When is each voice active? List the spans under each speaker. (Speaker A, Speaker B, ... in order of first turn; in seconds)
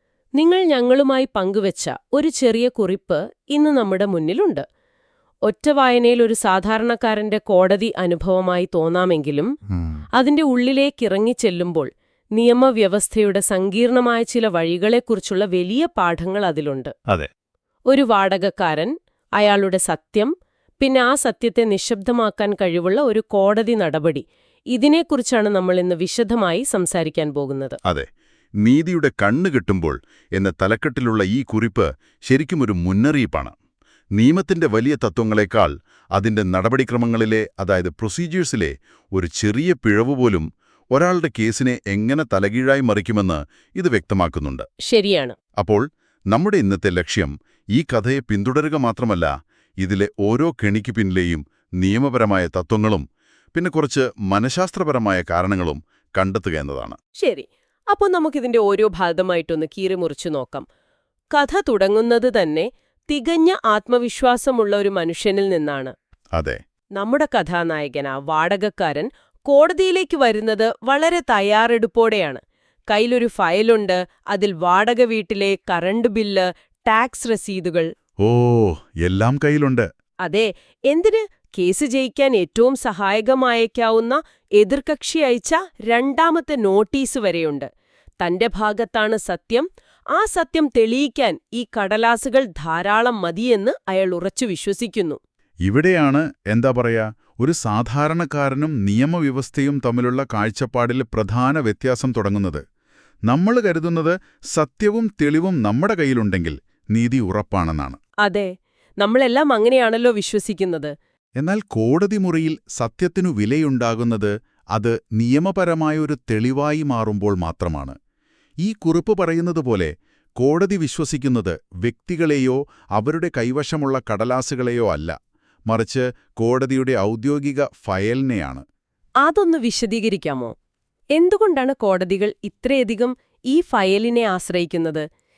Speaker A: 0.3-4.6, 5.4-9.5, 10.2-16.9, 17.9-27.8, 44.9-45.3, 57.2-60.7, 61.3-65.9, 67.0-77.9, 80.2-87.7, 88.2-95.2, 108.2-108.5, 109.0-110.9, 129.2-130.5, 131.1-135.0
Speaker B: 9.7-10.0, 28.6-33.5, 34.1-44.6, 45.6-57.0, 66.3-66.6, 78.2-79.9, 95.6-102.6, 103.3-108.0, 111.4-117.9, 118.6-125.1, 125.7-128.6